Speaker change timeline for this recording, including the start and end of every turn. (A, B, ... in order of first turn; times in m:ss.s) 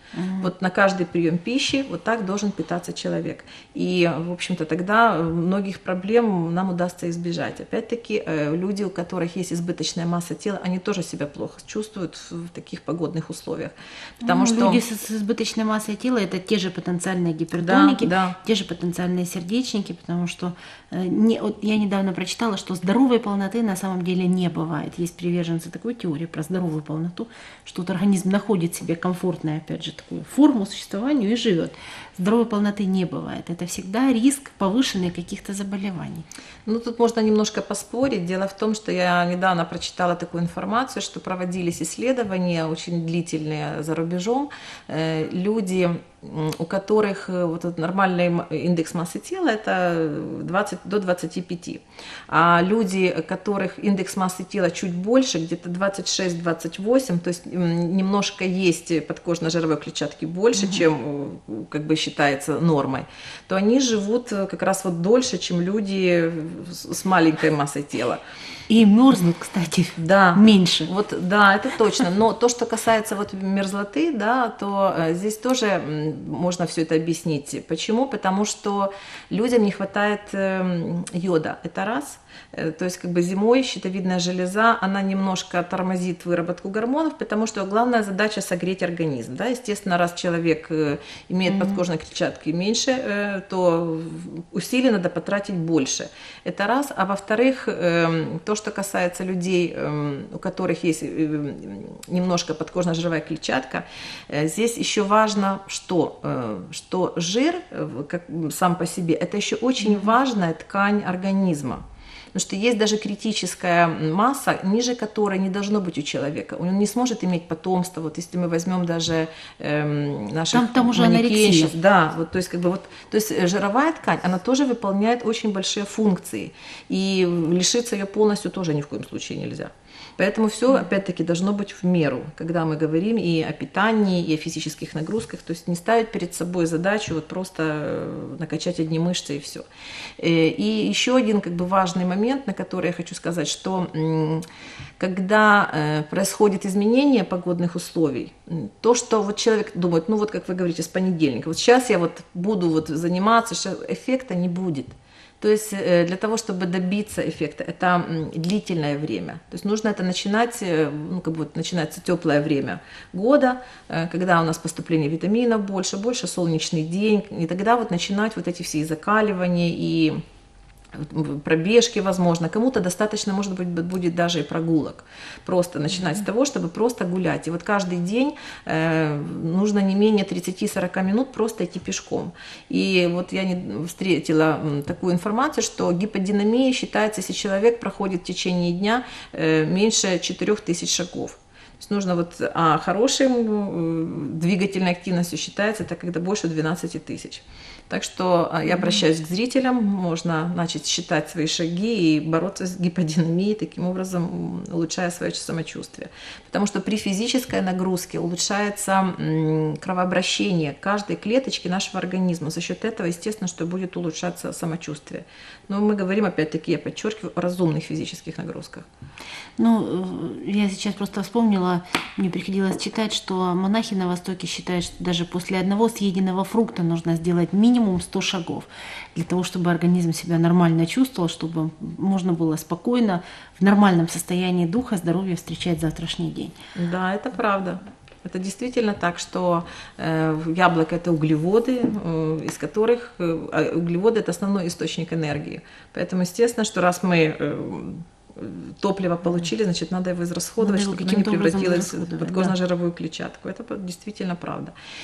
0:00.1-0:00.5 A
0:00.4-0:14.8 B
0:14.2-0:36.3 A
0:17.6-0:18.4 B
0:36.7-1:08.2 B
1:08.7-1:10.9 A
1:10.0-1:51.8 B
1:31.5-1:31.8 A
1:52.3-2:19.7 B
2:00.5-2:01.7 A
2:20.2-2:24.4 B
2:25.0-2:50.2 B
2:50.9-3:38.9 B
3:39.6-3:56.6 A
3:56.8-4:14.7 B
4:10.6-4:12.5 A